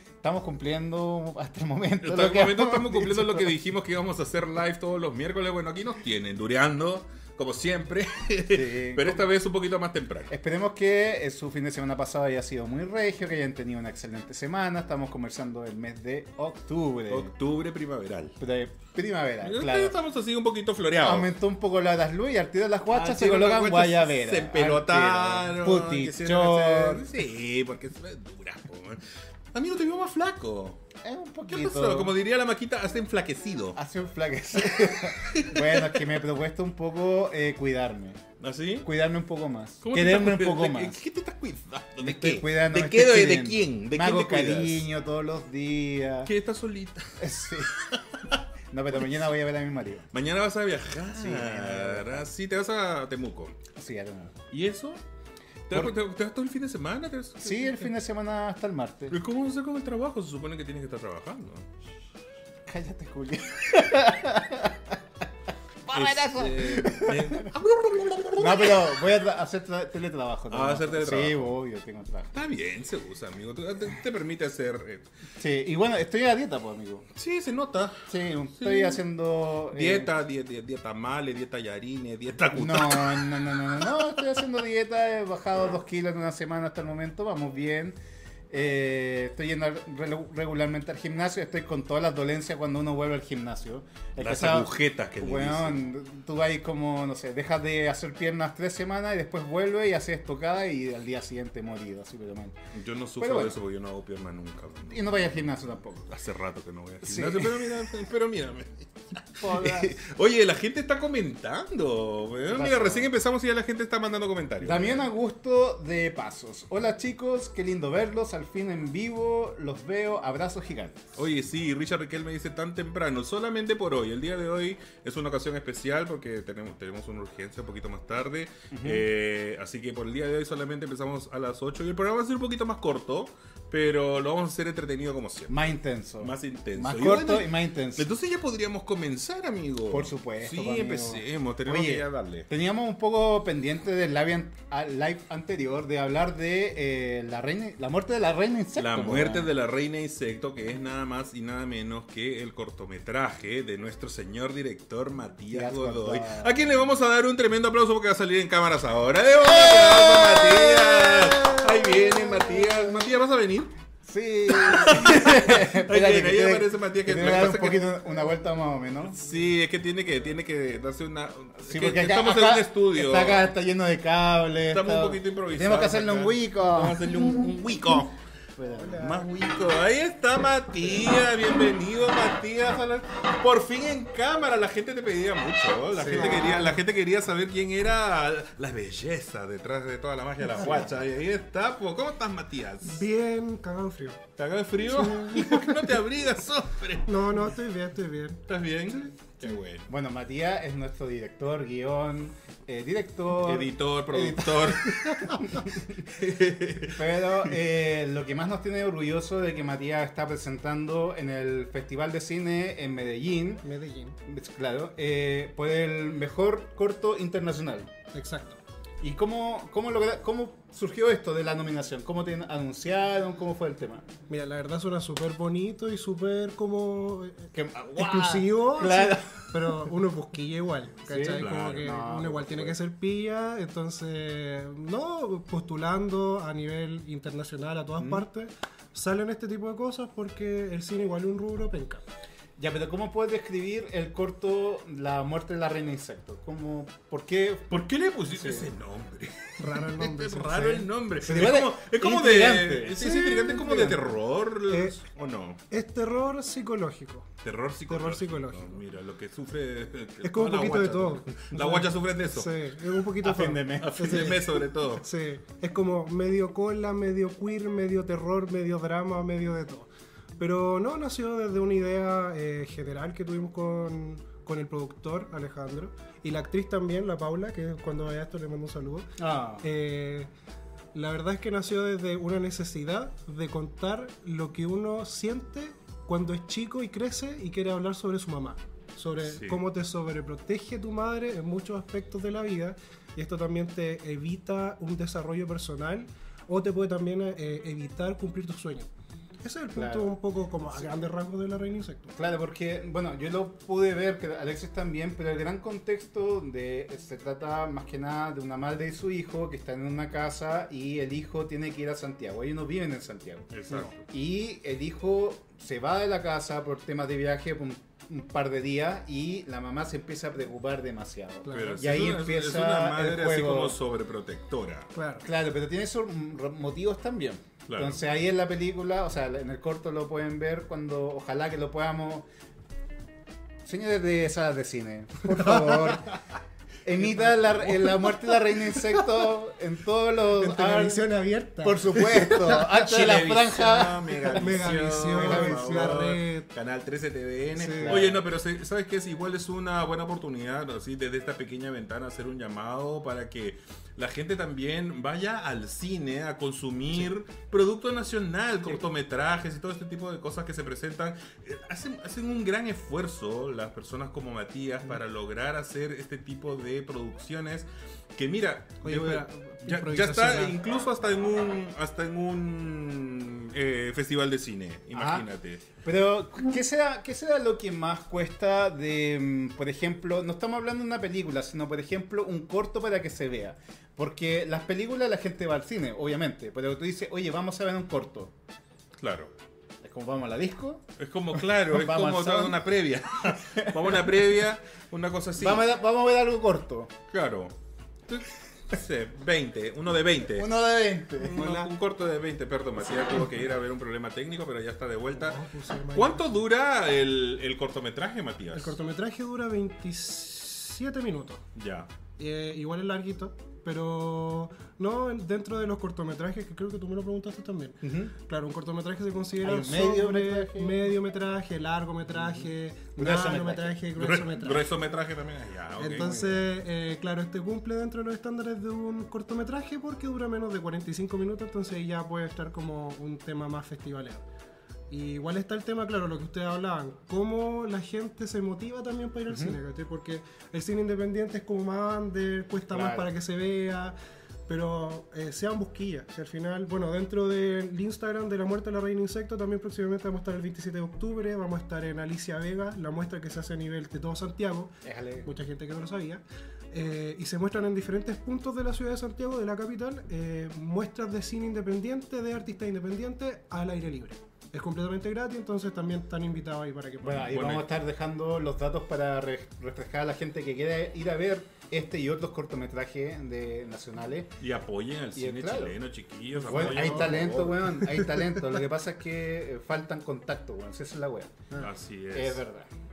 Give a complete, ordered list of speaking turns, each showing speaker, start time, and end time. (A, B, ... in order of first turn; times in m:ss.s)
0:00.2-0:03.5 A
0:02.0-0:10.3 B
0:08.5-0:09.3 A
0:10.3-0:17.3 A
0:17.1-0:18.4 B
0:18.4-0:20.0 A
0:19.4-0:21.3 B
0:21.0-0:27.1 A
0:22.9-0:29.0 B
0:29.5-0:30.8 B
0:31.0-0:32.1 A
0:31.5-0:33.8 B
0:33.8-0:38.2 A
0:34.6-0:36.1 B
0:38.4-0:38.9 B
0:38.8-0:41.0 A
0:39.8-0:44.9 B
0:42.0-0:46.3 A
0:46.3-0:48.4 B
0:47.2-0:47.7 A
0:48.7-0:50.1 A
0:50.1-0:53.6 B
0:51.1-0:52.3 A
0:53.7-0:54.4 A
0:54.5-0:55.0 B
0:55.7-0:57.9 B
0:57.4-0:59.2 A
0:59.1-1:01.7 B
1:02.7-1:05.0 A
1:05.9-1:07.5 A
1:05.9-1:09.0 B
1:08.4-1:12.3 A
1:10.5-1:11.5 B
1:12.3-1:15.1 B
1:15.4-1:17.1 A
1:17.2-1:18.0 B
1:18.1-1:20.1 A
1:18.6-1:19.0 B
1:19.7-1:23.8 B
1:22.5-1:28.0 A
1:28.5-1:42.6 A
1:34.2-1:35.8 B
1:42.7-1:45.2 B
1:43.2-1:43.6 A
1:44.9-1:46.1 A
1:46.1-1:55.0 B
1:47.0-1:47.7 A
1:49.4-1:50.0 A
1:52.5-1:53.1 A
1:54.6-2:01.1 A
2:01.2-2:15.7 B
2:08.7-2:09.1 A
2:15.5-2:18.1 A
2:16.2-2:22.5 B
2:19.9-2:29.5 A
2:28.8-2:43.7 B
2:35.5-2:36.7 A
2:39.4-2:43.1 A
2:44.0-2:49.2 A
2:44.5-2:47.9 B
2:49.1-2:53.4 B
2:51.7-2:57.2 A
2:54.7-2:58.2 B
2:58.6-2:59.1 A
2:58.8-2:59.3 C
2:59.0-3:13.1 B
3:05.9-3:06.6 A
3:06.0-3:06.8 C
3:10.5-3:11.0 A
3:12.8-3:14.2 C
3:14.4-3:17.5 B
3:14.9-3:15.8 C
3:17.0-3:19.1 C
3:18.5-3:19.9 B
3:19.9-3:26.0 A
3:23.4-3:27.5 B
3:26.9-3:33.6 A
3:33.6-3:34.2 C
3:34.2-3:37.9 A
3:38.1-3:38.6 C
3:39.0-3:44.1 A
3:44.3-4:02.0 C
3:47.5-3:49.8 A
3:51.1-3:52.8 A
3:51.4-3:52.1 B
3:58.0-3:58.2 A
4:02.6-4:07.7 A
4:07.7-4:15.6 B
4:08.4-4:08.7 A
4:09.6-4:10.8 C
4:10.5-4:14.2 A
4:13.0-4:13.9 C
4:14.7-4:15.0 C
4:15.7-4:17.3 C
4:17.4-4:22.6 B
4:17.9-4:18.8 C
4:20.2-4:39.1 C
4:23.2-4:24.4 A
4:23.8-4:25.1 B
4:39.2-4:39.7 A
4:39.6-4:40.3 C
4:40.9-4:58.9 C
4:49.2-4:49.6 B
4:59.4-5:02.1 C
4:59.7-5:00.2 A
5:02.1-5:23.8 A
5:13.5-5:14.0 B
5:21.4-5:21.8 C
5:21.5-5:24.9 B
5:24.9-5:25.3 C
5:25.2-5:32.3 A
5:27.7-5:28.0 B
5:33.6-5:36.1 A
5:35.3-5:36.0 C
5:36.8-5:41.1 A
5:37.0-5:39.1 C
5:40.4-5:42.7 C
5:41.6-5:46.1 A
5:42.5-6:15.6 B
5:44.3-5:46.5 C
5:47.6-5:48.1 C
5:47.7-5:48.2 A
6:08.8-6:10.6 C
6:14.9-6:15.3 A
6:15.8-6:28.3 A
6:29.0-6:29.3 B
6:29.8-6:30.8 A
6:31.0-6:35.7 B
6:31.6-6:32.6 A
6:33.3-6:34.1 A
6:35.4-6:36.9 A
6:37.1-6:37.5 B
6:38.1-6:40.6 B
6:40.2-6:41.7 A
6:41.1-6:45.4 B
6:45.2-6:46.3 C
6:45.9-6:48.8 B
6:48.5-6:51.4 C
6:51.6-6:51.9 B
6:52.2-7:04.7 C
6:57.8-6:58.1 A
6:59.4-7:00.9 A
7:03.0-7:03.8 A
7:04.0-7:06.1 B
7:05.8-7:14.3 C
7:06.0-7:06.5 A
7:14.9-7:24.0 C
7:19.3-7:19.6 A
7:22.7-7:23.1 A
7:24.5-7:47.4 C
7:34.8-7:35.3 A
7:47.0-7:54.3 A
7:47.1-7:47.8 B
7:54.4-7:57.8 B
7:55.2-7:55.8 A
7:56.4-7:58.2 C
7:56.4-8:01.4 A
8:01.6-8:02.4 B
8:02.1-8:02.7 A